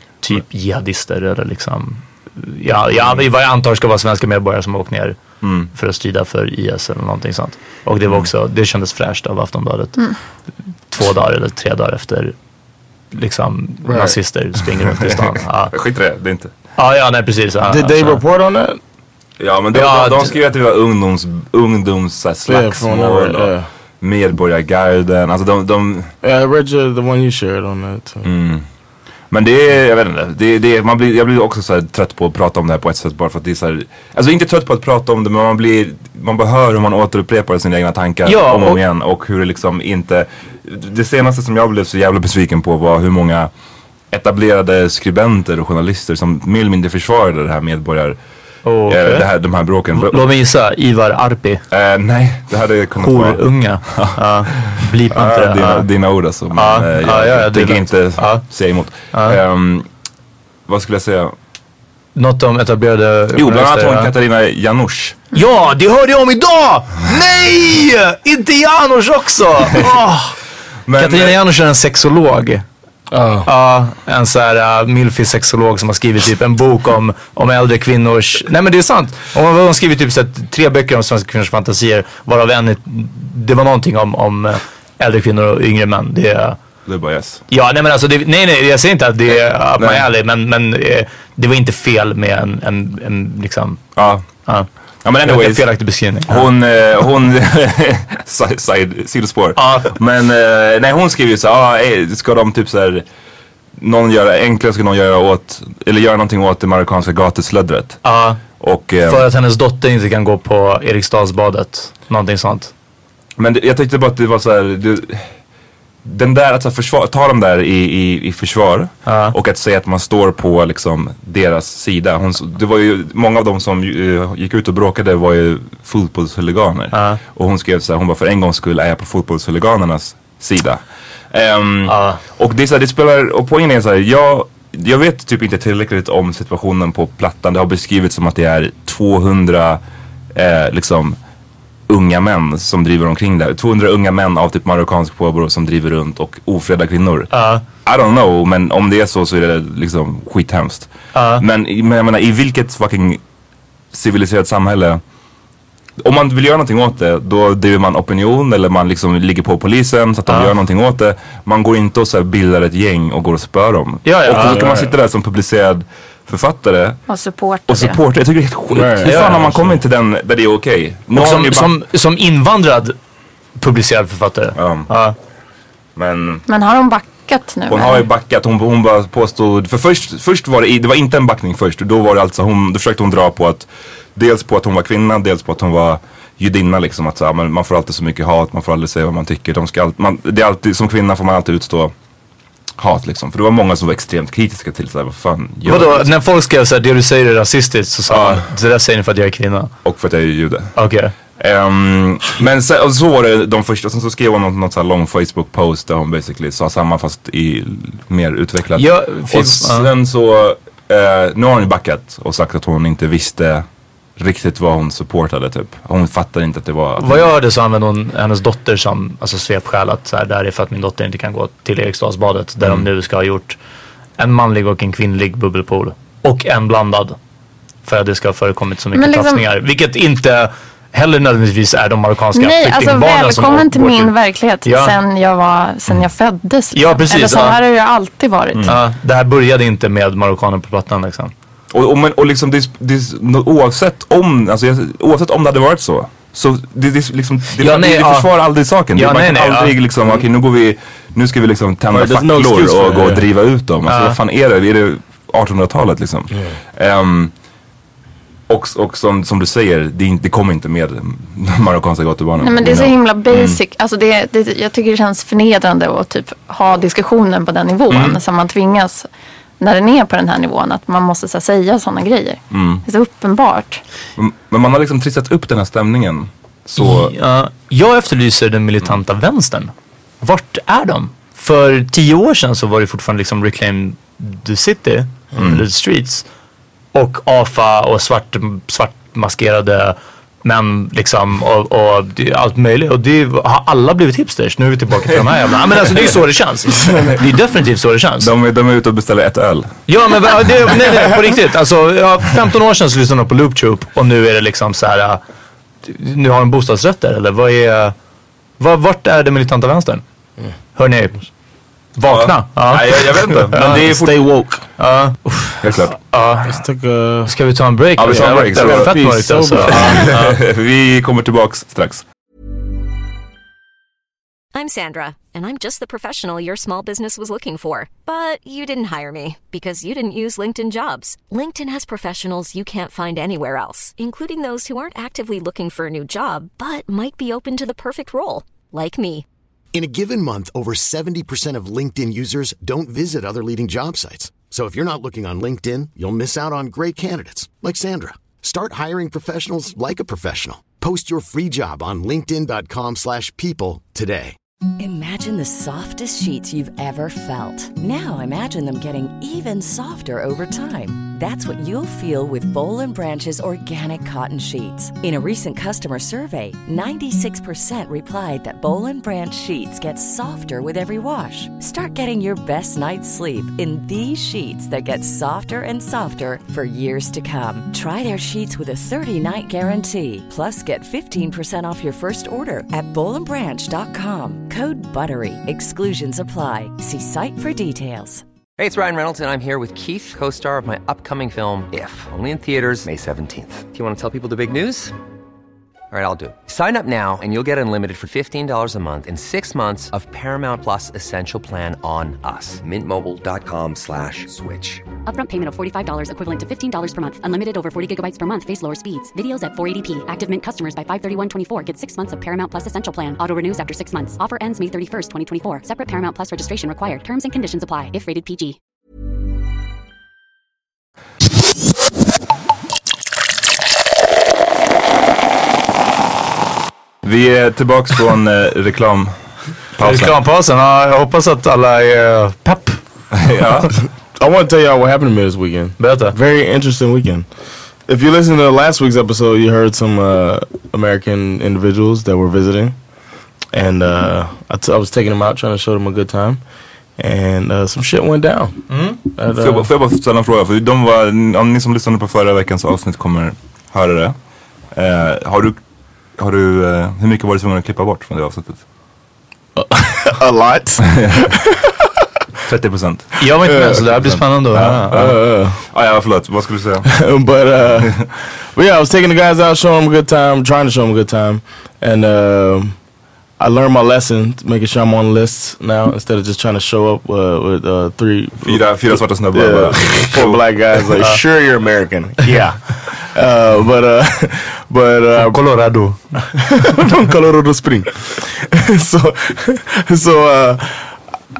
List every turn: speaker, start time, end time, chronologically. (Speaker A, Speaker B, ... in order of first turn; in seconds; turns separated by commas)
Speaker A: 0.2-5.2, Speaker B: 2.9-3.2, Speaker B: 5.4-5.7, Speaker A: 5.7-10.0, Speaker A: 10.9-12.3, Speaker A: 13.1-15.7, Speaker C: 13.8-14.2, Speaker B: 15.7-16.5, Speaker A: 16.8-18.2, Speaker C: 17.6-18.8, Speaker B: 19.4-26.1, Speaker A: 19.7-20.3, Speaker C: 22.5-23.7, Speaker C: 26.2-28.3, Speaker B: 28.2-28.6, Speaker B: 29.3-43.5, Speaker A: 38.2-38.8, Speaker B: 44.1-48.2, Speaker A: 48.6-49.3, Speaker B: 48.9-50.2, Speaker A: 49.9-51.6, Speaker B: 51.7-59.9, Speaker A: 53.0-55.9, Speaker A: 56.5-58.4, Speaker A: 59.1-59.4, Speaker B: 60.7-61.3, Speaker A: 62.1-64.1, Speaker B: 63.4-65.2, Speaker A: 65.3-70.3, Speaker B: 70.8-71.4, Speaker A: 71.0-72.6, Speaker C: 73.1-73.5, Speaker A: 73.5-86.6, Speaker B: 86.8-87.4, Speaker A: 87.5-93.9, Speaker B: 89.8-90.1, Speaker B: 94.0-94.2, Speaker B: 95.0-95.7, Speaker A: 95.2-96.5, Speaker B: 96.3-103.0, Speaker A: 99.5-99.9, Speaker B: 103.8-108.0, Speaker A: 108.0-108.4, Speaker B: 108.6-109.2, Speaker A: 109.0-112.7, Speaker B: 113.4-115.3, Speaker B: 116.0-139.8, Speaker A: 119.0-119.3, Speaker A: 126.9-127.2, Speaker A: 131.9-132.2, Speaker B: 140.3-141.2, Speaker B: 141.9-147.3, Speaker A: 147.3-147.6, Speaker B: 147.8-153.2, Speaker A: 151.1-151.4, Speaker B: 153.9-155.0, Speaker B: 156.0-167.0, Speaker A: 164.0-164.5, Speaker C: 164.3-164.9, Speaker D: 167.1-168.0, Speaker B: 167.7-171.7, Speaker C: 168.7-169.6, Speaker A: 169.0-169.7, Speaker A: 171.1-172.9, Speaker A: 173.6-175.2, Speaker B: 174.6-174.9, Speaker B: 175.9-176.4, Speaker D: 176.5-178.0, Speaker B: 177.7-191.9, Speaker B: 192.8-196.1, Speaker A: 195.7-199.7, Speaker B: 198.1-198.4, Speaker B: 199.8-200.7, Speaker A: 200.8-201.1, Speaker B: 201.4-213.6, Speaker A: 208.8-209.9, Speaker B: 214.2-217.3, Speaker A: 217.0-223.6, Speaker B: 222.6-222.9, Speaker A: 224.2-227.2, Speaker A: 227.8-234.1, Speaker D: 228.9-229.4, Speaker D: 232.3-238.7, Speaker A: 234.6-234.9, Speaker A: 236.7-237.6, Speaker A: 238.7-241.3, Speaker B: 241.7-257.3, Speaker A: 247.6-248.3, Speaker A: 248.9-249.7, Speaker C: 251.9-253.2, Speaker A: 253.9-254.2, Speaker B: 258.5-263.6, Speaker D: 262.4-269.1, Speaker B: 267.9-268.2, Speaker D: 269.6-273.8, Speaker B: 272.5-272.8, Speaker B: 274.2-277.1, Speaker A: 276.8-286.2, Speaker B: 285.4-285.6, Speaker A: 286.9-298.3, Speaker B: 298.2-299.8, Speaker A: 299.9-305.2, Speaker A: 305.8-307.9, Speaker A: 308.6-310.0, Speaker A: 310.7-311.3, Speaker A: 311.9-313.8, Speaker B: 312.1-314.1, Speaker C: 313.6-314.6, Speaker A: 314.8-316.6, Speaker B: 315.6-315.9, Speaker C: 316.4-317.3, Speaker A: 317.3-320.4, Speaker B: 318.0-319.0, Speaker C: 318.1-320.1, Speaker B: 319.6-322.0, Speaker E: 324.5-339.2, Speaker F: 339.7-354.4, Speaker G: 354.8-388.2, Speaker H: 388.6-394.9, Speaker H: 395.9-404.8, Speaker I: 405.0-418.6, Speaker B: 427.0-430.1, Speaker A: 429.8-432.8, Speaker B: 433.2-433.7, Speaker C: 434.1-437.3, Speaker A: 435.8-436.1, Speaker C: 437.9-442.8, Speaker C: 443.5-446.4, Speaker C: 447.0-449.7, Speaker A: 448.7-449.0, Speaker B: 449.3-454.1, Speaker B: 454.7-455.6, Speaker B: 456.2-458.6, Speaker C: 459.6-461.9, Speaker B: 462.4-463.2, Speaker A: 463.2-464.9, Speaker C: 463.4-463.8, Speaker B: 463.8-466.9, Speaker C: 464.9-465.6, Speaker C: 466.9-472.7, Speaker C: 473.4-485.5, Speaker B: 478.4-480.9, Speaker A: 485.1-486.7, Speaker C: 486.7-491.0